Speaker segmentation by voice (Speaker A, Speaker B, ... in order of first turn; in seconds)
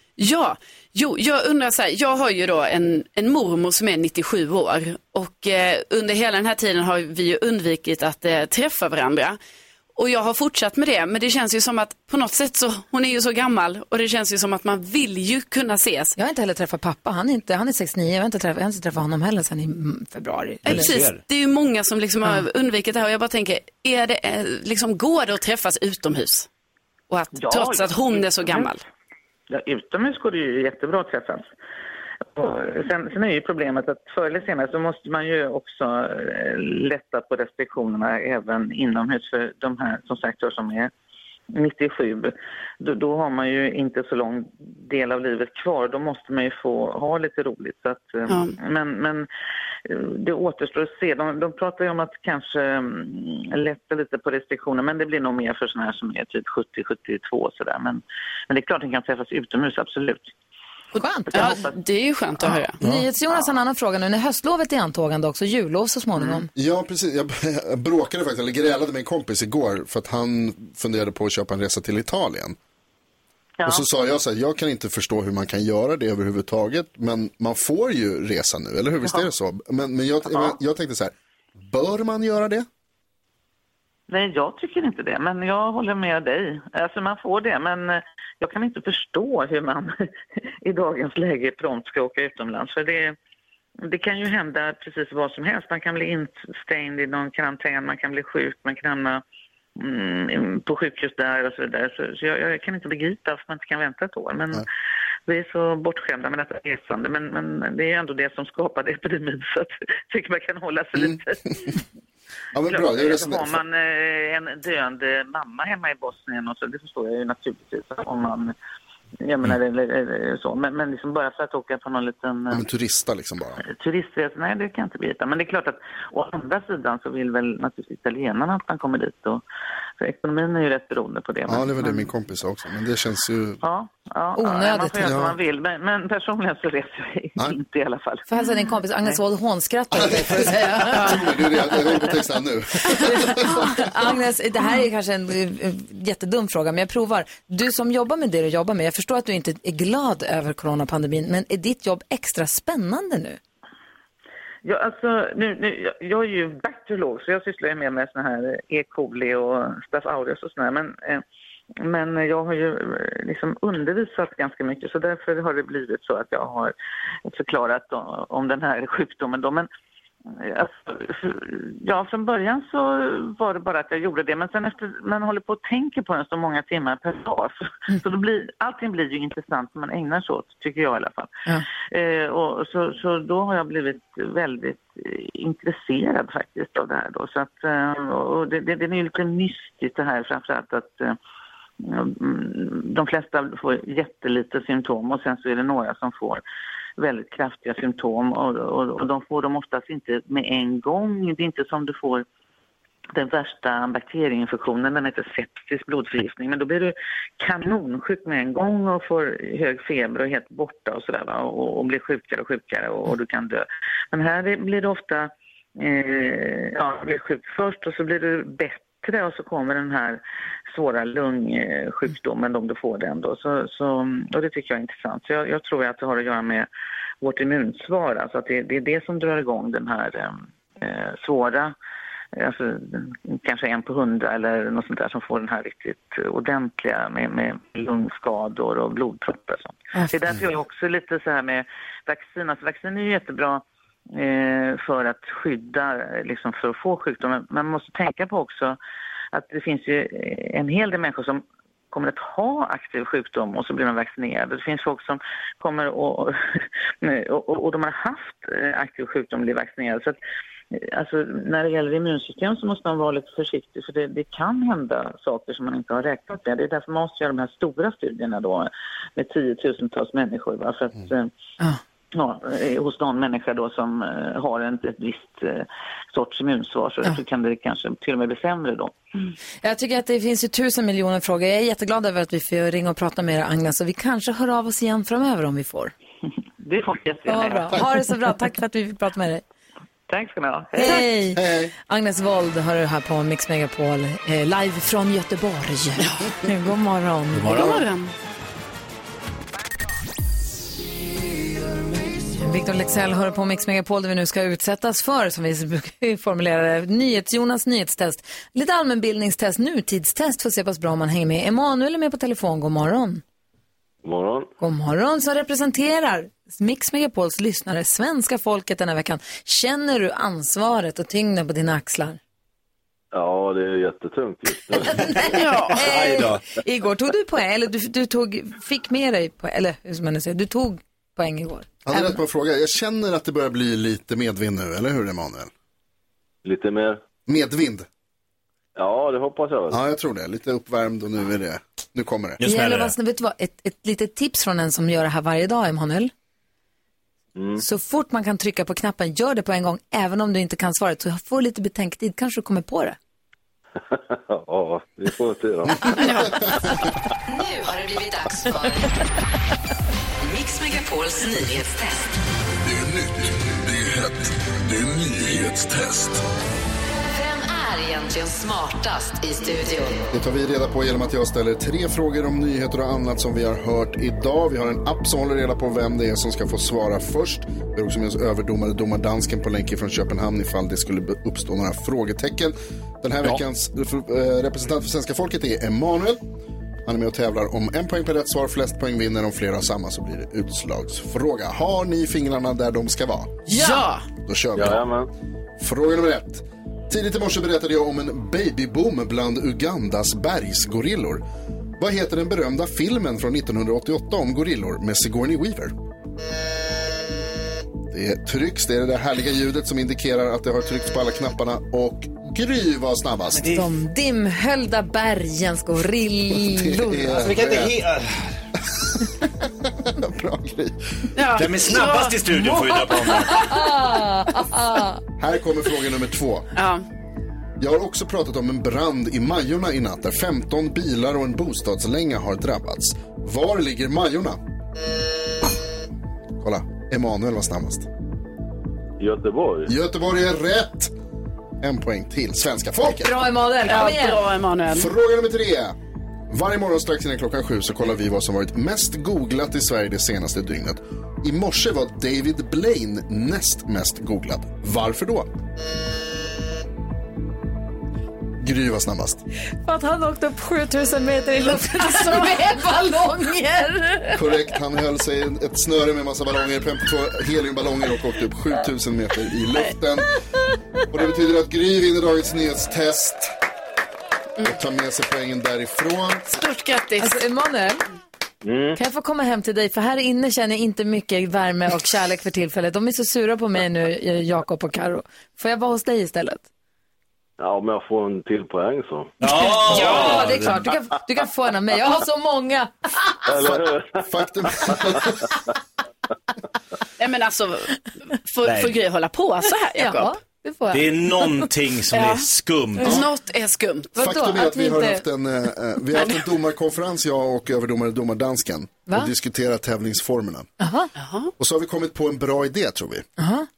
Speaker A: 0.2-9.4, 9.9-16.1, 20.6-26.5, 27.1-28.8, 48.3-48.5, 61.3-62.8, 296.0-296.3, 297.4-298.1, 325.2-325.8, 355.9-356.7, 393.5-394.0, 421.1-422.2, 426.6-426.8, 443.7-444.9, 476.3-477.2, 489.7-490.1, 497.0-500.1, 501.9-502.2, 502.8-503.9, 511.0-511.3
Speaker B: 16.1-21.0, 60.9-61.6, 62.8-66.5, 134.4-135.2, 138.3-141.8, 142.8-153.4, 279.6-285.9, 287.3-289.4, 290.8-297.8, 302.4-313.2, 314.6-322.2, 324.8-332.2, 342.4-346.1, 347.6-352.9, 393.5-393.8, 413.5-417.2, 422.4-425.0, 442.8-444.2, 459.6-464.3, 477.0-477.8, 478.7-486.4, 489.2-493.3, 499.7-501.2, 503.9-505.0, 510.6-510.9, 513.2-513.5
Speaker C: 20.6-21.2, 297.4-297.8, 325.7-326.4, 342.4-342.9, 413.3-413.6, 417.1-418.2, 421.3-423.5, 489.2-490.6, 498.4-498.7, 500.7-503.0
Speaker D: 27.3-28.7, 29.5-31.5, 32.4-40.9, 41.5-49.3, 49.9-60.3, 61.3-61.7, 66.2-66.4, 73.6-73.8, 84.1-90.1, 90.6-93.2, 93.8-99.2, 99.8-104.7, 105.3-111.7, 112.7-118.5, 119.2-122.6, 123.6-129.4, 130.0-132.1, 133.6-138.2, 154.6-161.2, 161.8-166.7, 167.3-169.7, 170.3-181.3, 181.9-191.2, 191.8-196.4, 197.0-202.2, 203.1-226.7, 227.2-231.7, 232.3-248.8, 249.3-260.2, 260.7-271.3, 272.1-278.9, 286.6-287.9, 290.1-291.1
Speaker E: 66.5-72.5, 73.7-82.7, 112.5-113.6, 122.5-123.6, 131.5-133.6, 135.0-135.3, 139.9-143.7, 291.4-291.7, 331.9-335.5, 337.2-337.9, 339.7-342.4, 370.1-386.2, 386.9-393.4, 394.3-394.8, 395.6-401.2, 401.8-405.7, 407.9-413.5, 416.4-417.8, 419.2-421.1, 425.2-426.5, 427.6-434.4, 436.4-437.9, 439.7-440.9, 441.6-443.9, 444.7-445.8, 446.3-455.3, 458.4-459.2, 464.1-470.1, 470.9-473.3, 474.4-476.4, 493.4-495.3, 503.9-510.5, 511.4-513.1
Speaker F: 314.0-314.5, 323.1-325.3, 336.4-337.0, 338.8-339.8, 347.4-347.6, 353.9-356.0, 394.5-395.1, 439.0-439.7, 478.4-478.8, 487.4-489.1, 493.3-494.0
Speaker G: 357.3-358.9, 360.2-362.1, 367.0-370.1
Speaker H: 362.6-366.2